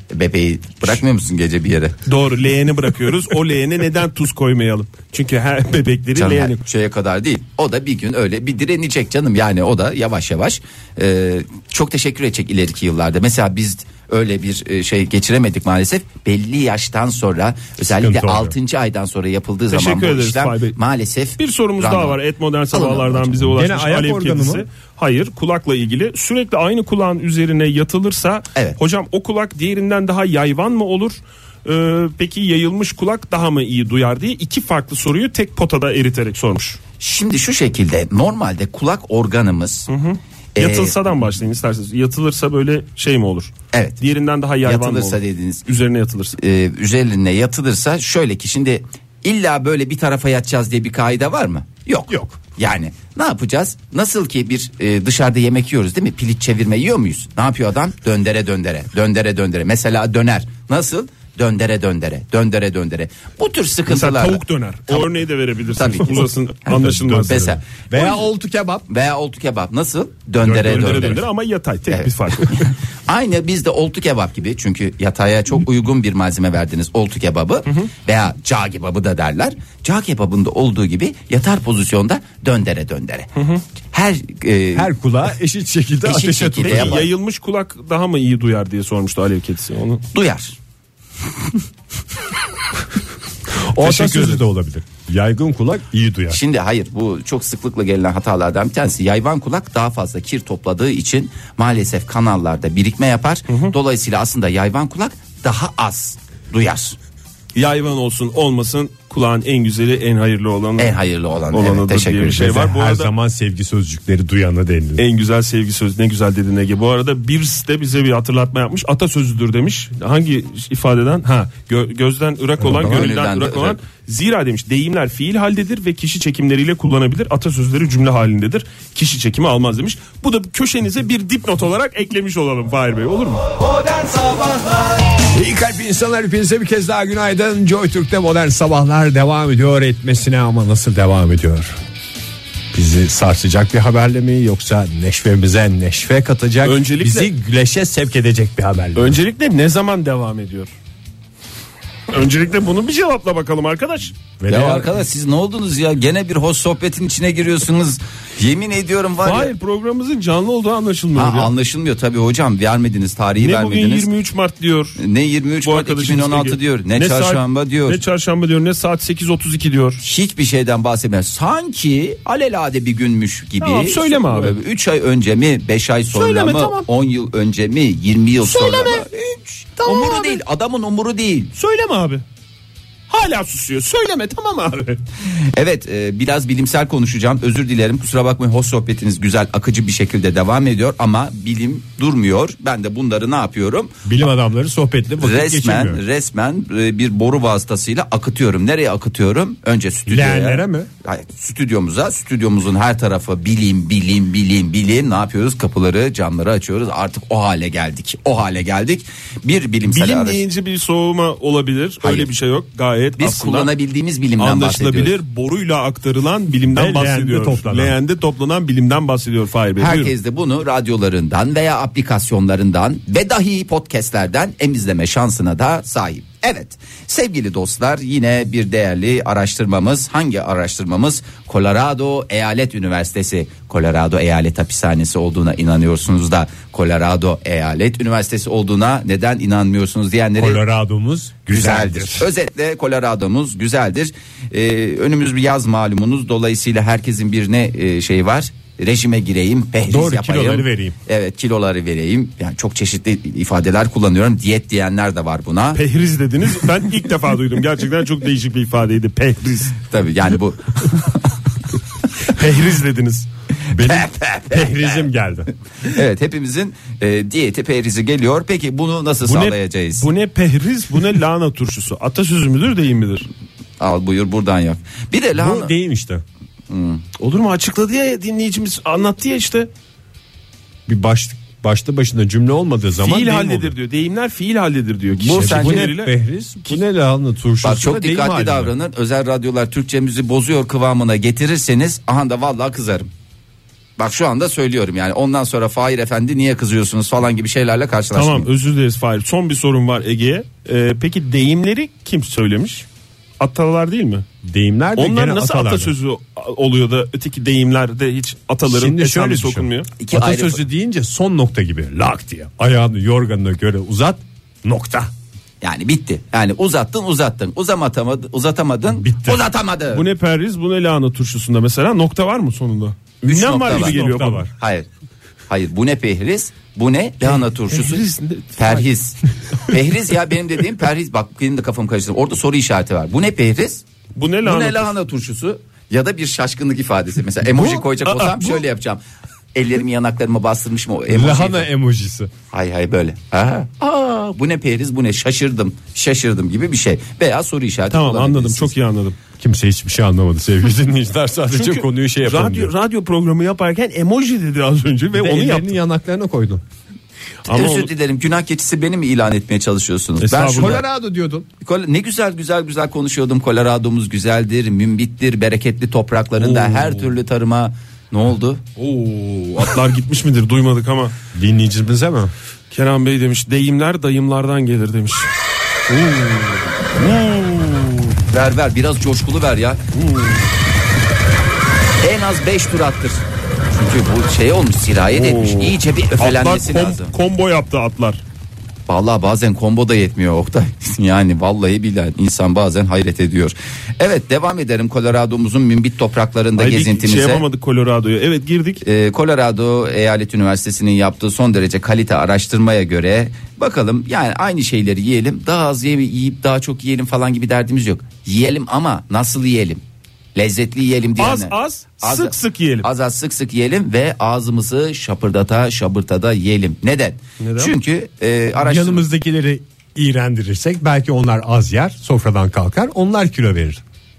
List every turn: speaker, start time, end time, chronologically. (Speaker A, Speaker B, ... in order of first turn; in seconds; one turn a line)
Speaker A: 0.1-2.0
Speaker B: 2.1-6.6
Speaker A: 6.2-22.2
Speaker C: 17.9-18.6
Speaker B: 19.7-20.8
Speaker B: 21.4-36.8
Speaker A: 22.7-23.5
Speaker C: 23.5-24.6
Speaker A: 37.0-39.9
Speaker B: 39.9-46.4
Speaker A: 40.6-41.0
Speaker A: 43.7-44.0
Speaker A: 44.6-45.7
Speaker A: 46.4-65.2
Speaker B: 63.9-67.5
Speaker A: 65.7-68.3
Speaker C: 66.7-68.9
Speaker A: 68.9-71.2
Speaker B: 70.4-72.7
Speaker C: 70.5-71.2
Speaker A: 71.9-83.3
Speaker A: 83.9-84.9
Speaker C: 84.8-87.1
Speaker A: 86.0-87.1
Speaker B: 86.6-90.0
Speaker A: 90.1-90.6
Speaker C: 93.7-96.4
Speaker B: 93.8-94.4
Speaker A: 96.3-107.0
Speaker B: 103.5-103.7
Speaker B: 107.5-111.0
Speaker A: 110.8-112.5
Speaker B: 111.5-113.1
Speaker C: 112.3-115.0
Speaker B: 115.0-133.5
Speaker C: 122.6-123.1
Speaker A: 122.7-123.8
Speaker A: 133.9-134.7
Speaker C: 135.2-141.8
Speaker C: 142.7-149.2
Speaker B: 146.6-147.3
Speaker B: 148.9-150.7
Speaker B: 152.1-154.2
Speaker C: 154.4-154.9
Speaker A: 154.5-159.5
Speaker B: 159.2-161.5
Speaker A: 161.2-164.1
Speaker B: 163.4-165.0
Speaker A: 165.0-168.0
Speaker B: 165.6-170.0
Speaker A: 170.0-181.5
Speaker B: 173.6-174.6
Speaker B: 176.1-176.9
Speaker B: 178.4-179.2
Speaker B: 179.8-180.4
Speaker B: 181.6-182.2
Speaker B: 183.1-185.0
Speaker A: 185.3-193.9
Speaker C: 194.1-196.0
Speaker A: 195.2-210.4
Speaker C: 200.1-200.9
Speaker B: 209.9-213.7
Speaker A: 212.0-212.3
Speaker A: 213.2-215.2
Speaker B: 214.4-220.1
Speaker C: 216.7-218.0
Speaker A: 219.8-240.6
Speaker C: 240.4-242.3
Speaker A: 241.5-255.8
Speaker C: 249.9-251.0
Speaker B: 255.8-259.8
Speaker A: 259.8-261.3
Speaker B: 262.2-263.3
Speaker C: 263.7-265.5
Speaker A: 263.8-265.0
Speaker A: 265.8-270.1
Speaker B: 269.2-273.3
Speaker A: 273.8-275.7
Speaker C: 275.4-276.2
Speaker A: 276.7-277.1
Speaker B: 277.2-279.7
Speaker C: 280.9-283.7
Speaker B: 283.0-286.1
Speaker A: 285.2-285.9
Speaker C: 285.3-288.7
Speaker A: 287.6-293.1
Speaker A: 294.0-298.5
Speaker B: 298.1-302.9
Speaker B: 303.4-304.3
Speaker C: 304.4-305.9
Speaker B: 305.0-309.9
Speaker C: 308.7-315.1
Speaker A: 310.0-310.6
Speaker A: 315.6-320.1
Speaker C: 318.9-319.4
Speaker B: 319.9-324.5
Speaker A: 323.2-324.0
Speaker C: 323.6-324.5
Speaker A: 324.5-324.9
Speaker A: 325.5-328.1
Speaker B: 327.2-328.9
Speaker A: 328.6-333.8
Speaker B: 334.1-334.9
Speaker A: 334.4-339.0
Speaker B: 337.5-338.6
Speaker A: 339.6-341.7
Speaker C: 341.1-342.3
Speaker A: 342.5-348.7
Speaker B: 347.9-349.2
Speaker C: 349.4-352.7
Speaker B: 351.5-355.7
Speaker C: 355.1-356.6
Speaker B: 357.4-357.9
Speaker A: 357.5-360.9
Speaker B: 360.2-360.8
Speaker C: 360.6-361.5
Speaker A: 361.6-368.6
Speaker C: 366.7-366.9
Speaker B: 368.8-371.1
Speaker C: 371.3-372.3
Speaker B: 372.7-375.3
Speaker B: 375.9-376.4
Speaker B: 377.0-378.2
Speaker A: 378.3-379.8
Speaker B: 379.9-380.5
Speaker A: 382.0-387.1
Speaker B: 385.1-388.2
Speaker A: 388.9-397.4
Speaker B: 396.6-398.8
Speaker A: 398.8-409.8
Speaker A: 410.4-419.1
Speaker B: 411.2-412.9
Speaker B: 417.4-417.7
Speaker C: 418.6-423.8